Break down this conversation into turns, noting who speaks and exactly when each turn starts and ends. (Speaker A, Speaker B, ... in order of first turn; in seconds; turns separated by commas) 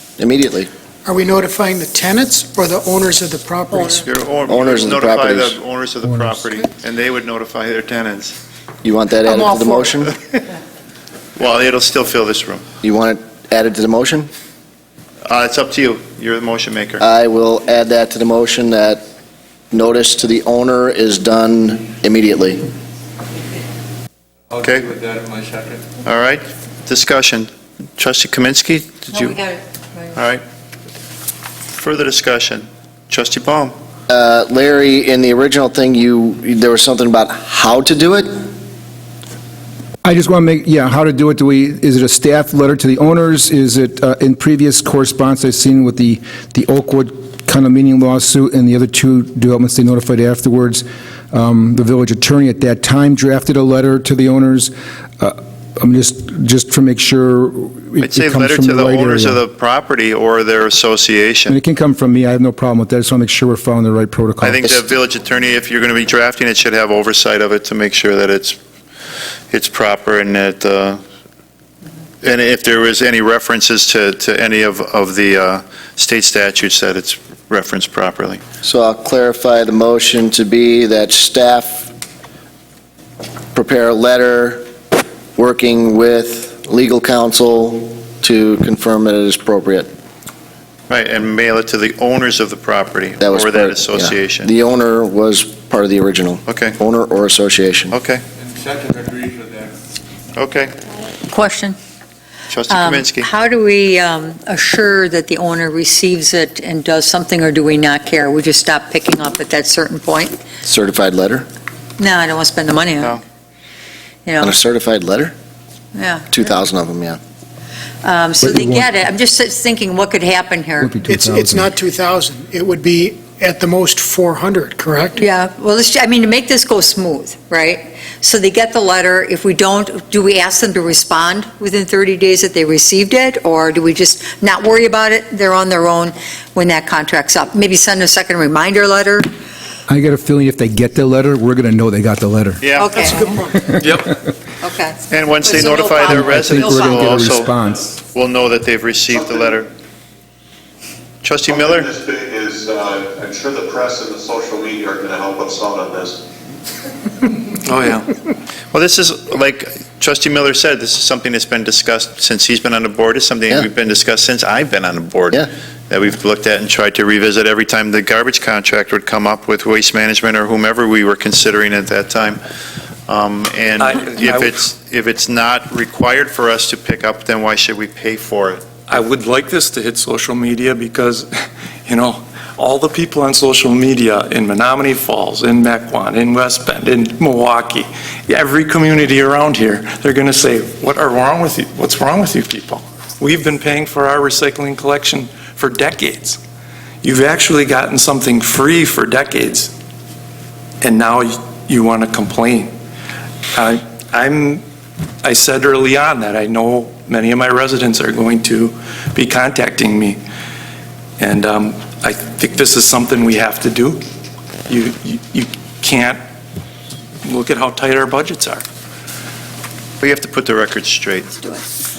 Speaker A: 0.2-0.7, Speaker B: 1.1-4.1, Speaker C: 3.9-8.4, Speaker A: 4.5-5.6, Speaker D: 6.0-6.5, Speaker A: 8.8-10.1, Speaker B: 9.2-9.9, Speaker C: 11.4-12.7, Speaker A: 12.8-14.3, Speaker C: 15.3-17.1, Speaker A: 17.0-19.0, Speaker A: 19.7-22.7, Speaker E: 24.5-25.8, Speaker C: 24.6-24.9, Speaker C: 26.0-29.4, Speaker F: 29.1-30.2, Speaker C: 30.1-30.4, Speaker C: 31.7-33.8, Speaker A: 34.1-38.4, Speaker D: 40.0-59.4, Speaker C: 58.0-61.6, Speaker D: 61.5-64.9, Speaker C: 64.4-68.6, Speaker C: 69.5-71.0, Speaker C: 72.2-78.4, Speaker A: 78.6-81.9, Speaker A: 83.5-84.7, Speaker A: 85.4-89.9, Speaker C: 90.9-94.5, Speaker A: 93.2-97.9, Speaker C: 96.5-96.8, Speaker C: 97.9-98.2, Speaker E: 98.6-99.7, Speaker C: 100.3-100.7, Speaker F: 101.3-101.8, Speaker C: 102.5-103.3, Speaker F: 102.7-110.4, Speaker A: 110.6-111.5, Speaker F: 112.0-113.2, Speaker F: 114.2-114.5, Speaker A: 114.4-115.3, Speaker F: 116.0-116.3, Speaker A: 116.3-117.2, Speaker F: 118.0-121.0, Speaker D: 118.4-118.9, Speaker D: 120.8-121.7, Speaker B: 121.1-125.2, Speaker F: 125.1-139.3, Speaker D: 139.9-142.7, Speaker C: 142.6-142.9, Speaker F: 142.8-143.5, Speaker B: 143.1-143.6, Speaker D: 143.7-144.2, Speaker F: 144.6-147.3, Speaker C: 145.1-149.7, Speaker D: 146.0-147.9, Speaker G: 149.1-149.5, Speaker C: 151.2-151.9, Speaker G: 151.5-156.2, Speaker H: 157.6-158.1, Speaker C: 158.7-172.4, Speaker C: 173.1-178.6, Speaker H: 173.8-174.5, Speaker H: 178.9-181.3, Speaker H: 181.9-196.4, Speaker H: 197.0-199.7, Speaker H: 200.8-202.7, Speaker H: 203.5-204.6, Speaker H: 205.2-210.2, Speaker H: 211.2-214.0, Speaker H: 214.7-216.2, Speaker H: 217.2-218.7, Speaker C: 220.0-221.6